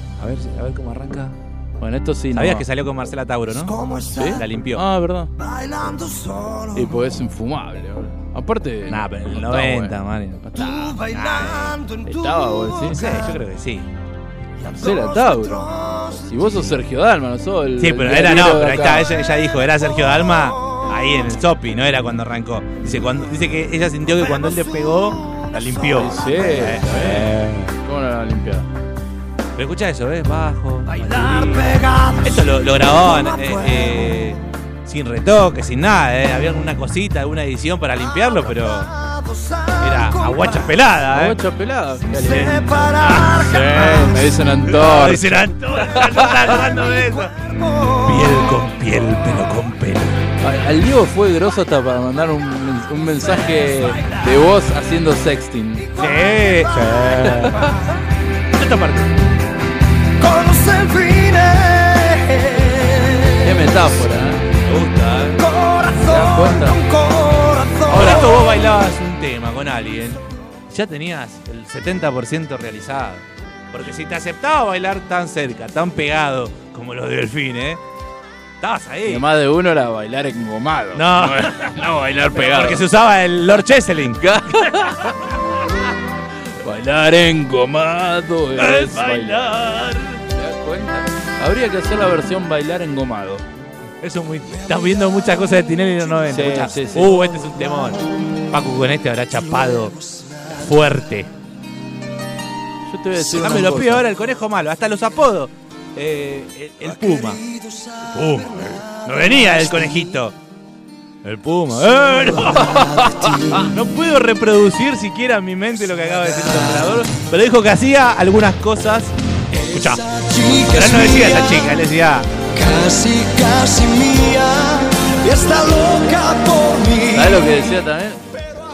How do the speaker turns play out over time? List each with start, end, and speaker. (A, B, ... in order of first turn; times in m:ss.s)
0:00.2-0:01.4 A
0:01.8-0:02.7 B
0:02.3-0:04.8 A
0:04.1-0:05.3 B
0:05.6-0:06.5 C
0:06.7-0:11.0 B
0:08.9-0:12.0 A
0:12.0-0:13.0 B
0:12.9-0:13.9 A
0:14.6-0:19.1 B
0:17.8-0:27.5 A
0:25.9-0:28.7 B
0:29.6-0:38.9 A
0:39.3-0:39.7 C
0:39.8-0:41.4 A
0:41.1-0:46.6 B
0:43.0-0:50.2 A
0:50.4-0:55.9 B
0:55.9-0:57.8 A
0:57.2-0:57.7 B
0:58.5-0:59.2 A
1:00.2-1:03.3 C
1:03.4-1:04.4 B
1:04.6-1:05.5 A
1:05.4-1:08.3 C
1:05.9-1:06.8 B
1:07.8-1:17.8 A
1:18.6-1:19.2 A
1:19.0-1:22.8 B
1:20.9-1:25.4 A
1:24.2-1:25.1 B
1:26.6-1:29.5 B
1:28.6-1:30.2 A
1:30.3-1:33.4 B
1:34.0-1:41.3 A
1:36.3-1:37.2 B
1:42.9-1:44.1 B
1:43.3-1:47.4 A
1:48.0-1:50.4 A
1:51.2-2:02.3 A
2:00.3-2:00.6 C
2:02.6-2:07.1 C
2:07.0-2:08.2 B